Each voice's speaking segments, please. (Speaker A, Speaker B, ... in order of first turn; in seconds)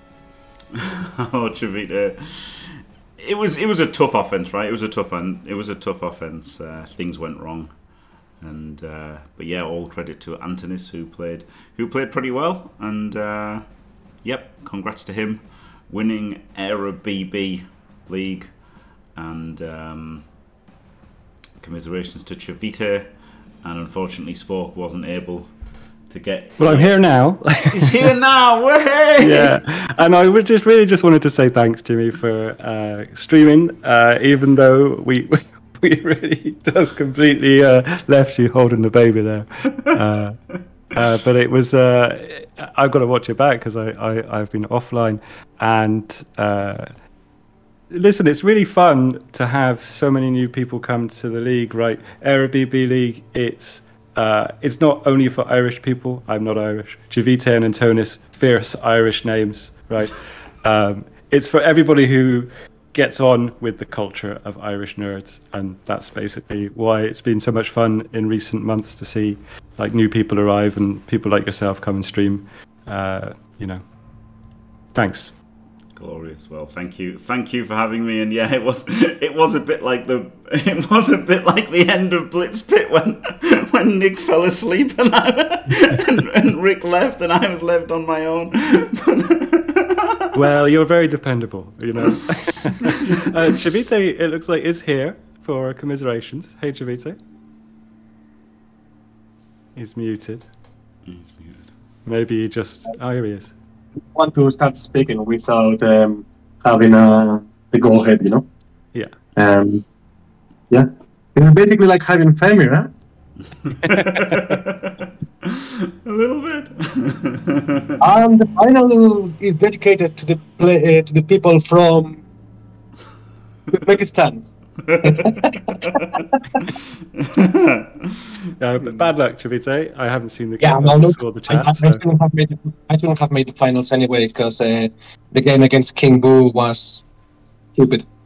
Speaker A: 0.7-7.7, 8.4-13.7, 14.2-18.5, 19.1-20.3, 21.6-25.5, 26.1-29.6, 75.9-90.3, 101.0-101.7, 113.6-118.0, 124.8-129.1
Speaker B: 26.6-28.1, 29.2-47.1, 47.9-73.9, 74.9-75.3, 90.3-97.2, 99.7-100.5, 102.0-103.5, 108.9-109.2, 113.8-114.6, 128.6-132.0
Speaker C: 104.1-108.5, 109.3-109.9, 110.7-112.9, 118.0-122.2, 123.7-124.5, 125.0-126.6, 130.6-137.0, 137.7-138.1